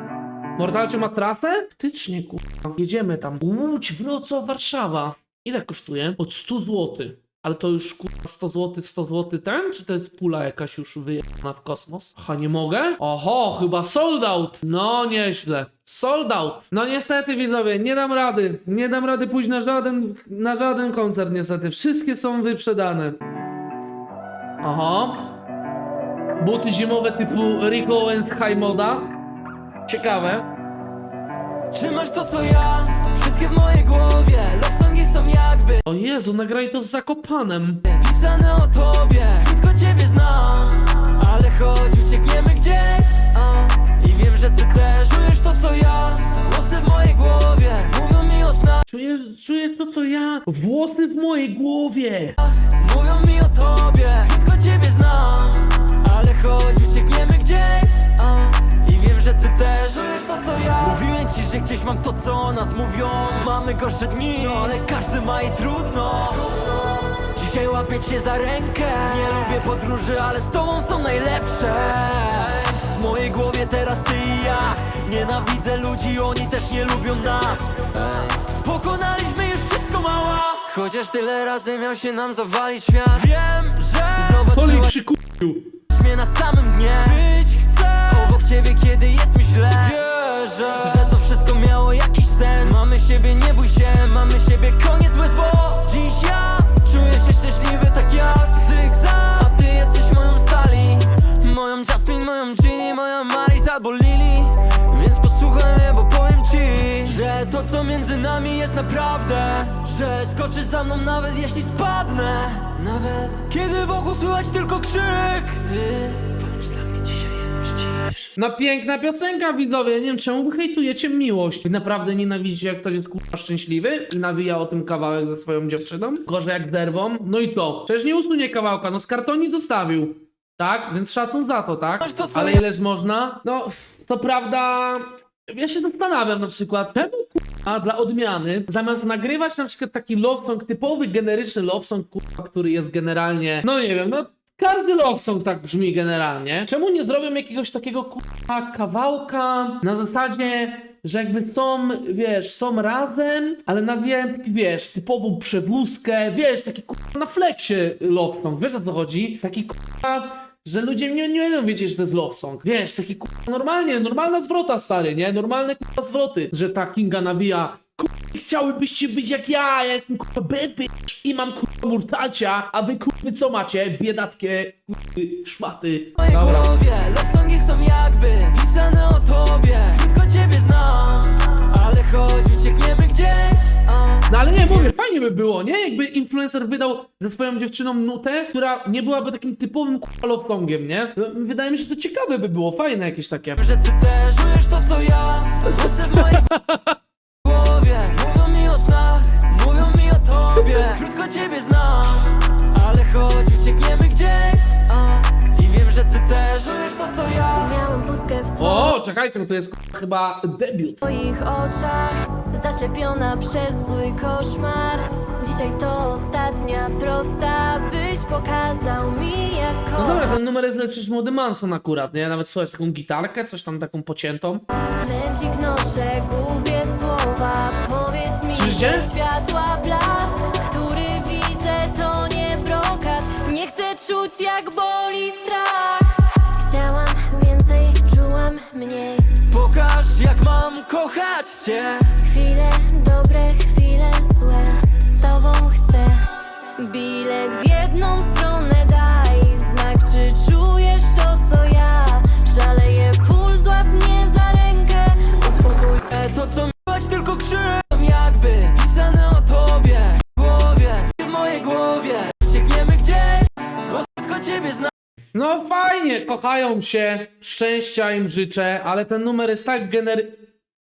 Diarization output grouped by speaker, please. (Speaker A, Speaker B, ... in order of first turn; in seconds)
Speaker A: 0.6-23.2, 24.6-25.3, 26.4-29.1, 29.9-30.4, 35.8-37.9, 48.9-52.4, 84.5-85.7, 118.3-176.7, 184.3-193.6, 196.1-196.9, 208.6-211.0, 220.0-224.6, 228.5-229.1, 265.3-270.5
Speaker B: 31.7-35.8, 37.9-48.8, 52.5-66.6, 67.3-84.9, 85.9-118.1, 132.0-132.6, 176.2-184.8, 193.6-196.5, 197.4-207.7, 239.5-242.2, 255.8-264.9
Speaker C: 207.5-209.0, 211.0-220.4, 224.7-239.4, 242.2-256.0